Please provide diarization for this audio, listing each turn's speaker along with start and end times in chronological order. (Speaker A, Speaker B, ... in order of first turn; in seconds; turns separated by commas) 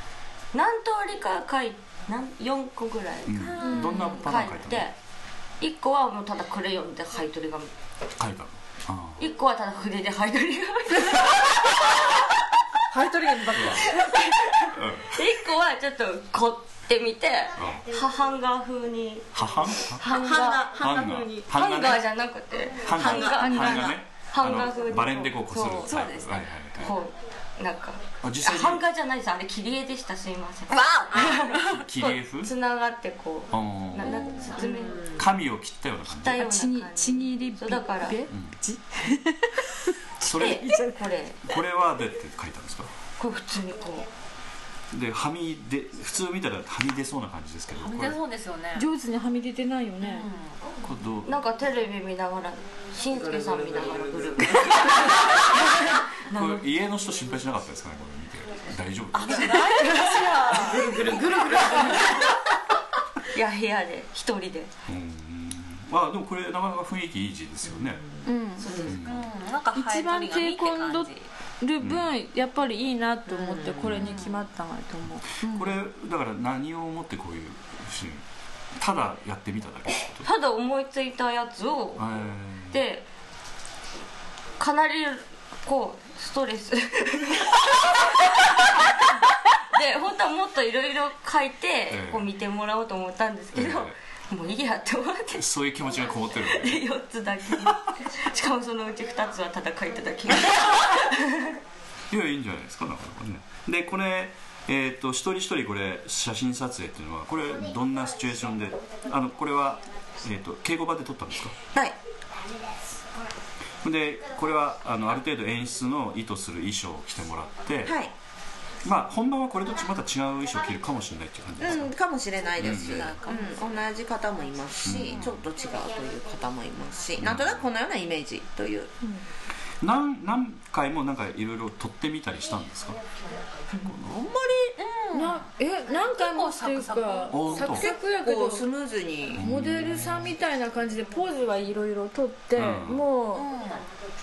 Speaker A: 0.5-5.0, Speaker B: 3.3-4.9, Speaker C: 3.6-4.2, Speaker A: 5.6-7.7, Speaker B: 8.2-9.2, Speaker A: 9.2-11.9, Speaker C: 12.9-14.2, Speaker B: 13.5-14.0, Speaker A: 14.0-20.9, Speaker B: 14.7-15.2, Speaker B: 17.6-17.9, Speaker B: 19.3-20.1, Speaker D: 20.0-21.5, Speaker B: 20.8-22.0, Speaker A: 21.5-26.0, Speaker B: 22.8-27.0, Speaker D: 22.9-24.0, Speaker E: 25.8-26.5, Speaker A: 26.8-35.2, Speaker B: 28.2-28.9, Speaker D: 30.7-31.6, Speaker B: 31.6-32.5, Speaker B: 33.5-34.4, Speaker D: 34.4-35.3, Speaker B: 35.2-36.5, Speaker A: 36.1-38.2, Speaker C: 36.4-41.0, Speaker B: 38.3-38.6, Speaker B: 40.2-40.7, Speaker A: 40.2-41.5, Speaker B: 41.4-42.9, Speaker A: 43.2-44.1, Speaker B: 44.9-48.2, Speaker E: 47.8-48.9, Speaker C: 48.8-50.3, Speaker E: 50.0-50.6, Speaker B: 50.8-51.4, Speaker A: 51.2-56.6, Speaker D: 53.1-55.3, Speaker B: 56.3-59.8, Speaker E: 59.1-62.0, Speaker A: 59.5-60.3, Speaker C: 59.9-60.9, Speaker D: 60.6-62.0, Speaker A: 63.3-64.7, Speaker B: 64.9-68.0, Speaker D: 67.7-69.0, Speaker C: 68.3-68.7, Speaker A: 68.6-68.9, Speaker E: 68.8-71.3, Speaker B: 68.9-69.3, Speaker C: 69.8-75.7, Speaker B: 71.8-72.1, Speaker D: 73.3-74.2, Speaker E: 74.1-74.4, Speaker B: 75.4-80.3, Speaker A: 80.2-82.2, Speaker B: 82.0-82.8, Speaker A: 82.7-83.1, Speaker A: 84.6-89.2, Speaker A: 89.7-95.5, Speaker B: 91.9-92.3, Speaker B: 93.5-94.0, Speaker B: 95.3-96.8, Speaker A: 96.4-101.6, Speaker B: 102.1-111.5, Speaker B: 113.8-118.0, Speaker D: 117.8-118.1, Speaker B: 118.8-121.9, Speaker D: 121.6-128.9, Speaker B: 122.6-123.2, Speaker E: 122.8-123.6, Speaker B: 124.8-125.5, Speaker B: 127.2-127.7, Speaker B: 129.8-133.0, Speaker D: 133.7-134.8, Speaker E: 134.8-135.4, Speaker C: 135.1-138.7, Speaker E: 136.1-137.7, Speaker B: 137.3-137.9, Speaker D: 137.6-139.4, Speaker B: 139.4-140.3, Speaker C: 139.4-143.5, Speaker B: 142.6-143.1, Speaker E: 143.3-143.9